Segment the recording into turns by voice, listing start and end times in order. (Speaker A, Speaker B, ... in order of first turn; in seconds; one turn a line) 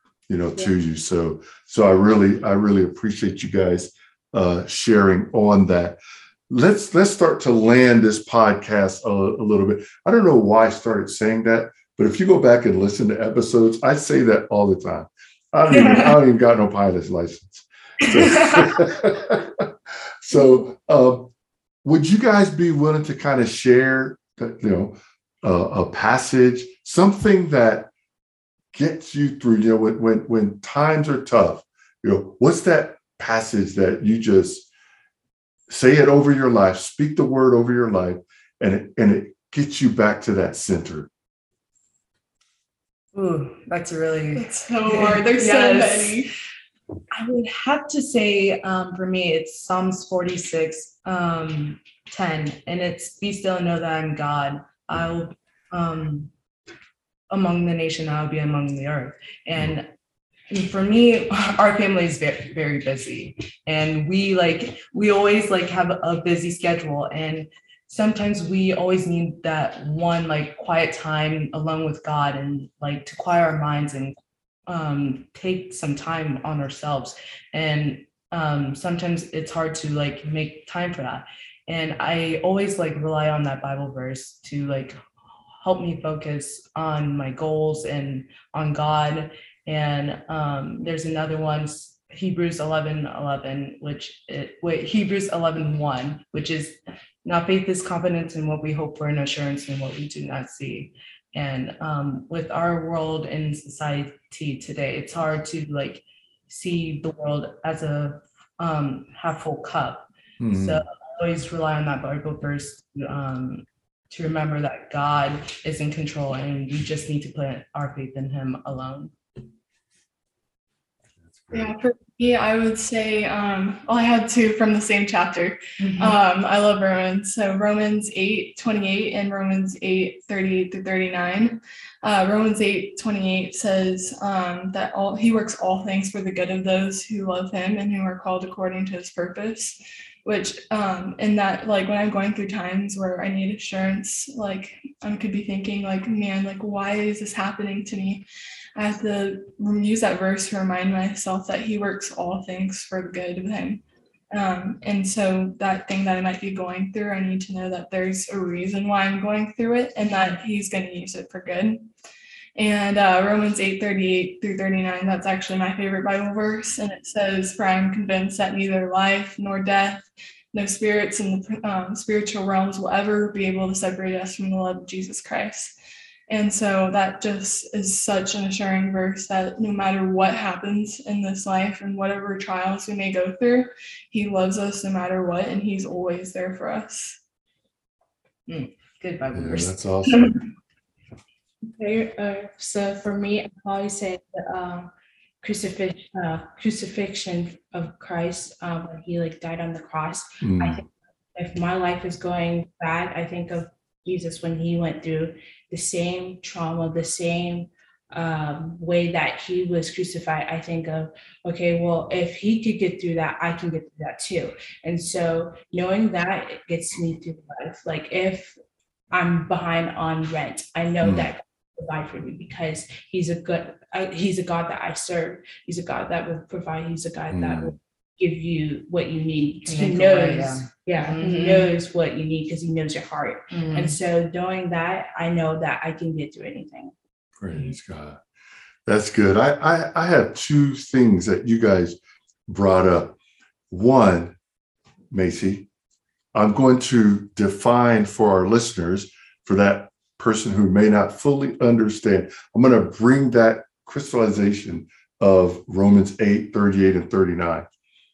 Speaker A: 0.3-19.7
Speaker B: 15.7-16.2
Speaker B: 18.0-18.7
Speaker A: 20.2-21.3
Speaker A: 21.8-27.9
Speaker A: 28.7-34.7
Speaker A: 35.7-41.1
Speaker B: 43.1-46.3
Speaker C: 44.4-46.3
Speaker B: 47.1-56.3
Speaker B: 57.3-59.9
Speaker B: 60.5-74.1
Speaker B: 74.7-85.0
Speaker B: 85.6-119.1
Speaker A: 110.4-110.8
Speaker A: 121.2-121.7
Speaker C: 121.5-161.9
Speaker B: 125.8-126.2
Speaker B: 160.0-160.4
Speaker C: 162.6-175.7
Speaker C: 176.3-187.2
Speaker B: 188.5-190.3
Speaker A: 189.3-190.4
Speaker D: 191.6-194.9
Speaker D: 195.4-218.6
Speaker A: 200.4-200.9
Speaker D: 219.1-236.9
Speaker A: 221.0-221.3
Speaker A: 227.3-227.7
Speaker B: 229.6-231.7
Speaker B: 233.5-234.0
Speaker A: 237.4-238.2
Speaker A: 238.9-243.1
Speaker A: 243.7-244.3
Speaker A: 245.1-245.7
Speaker A: 246.3-257.7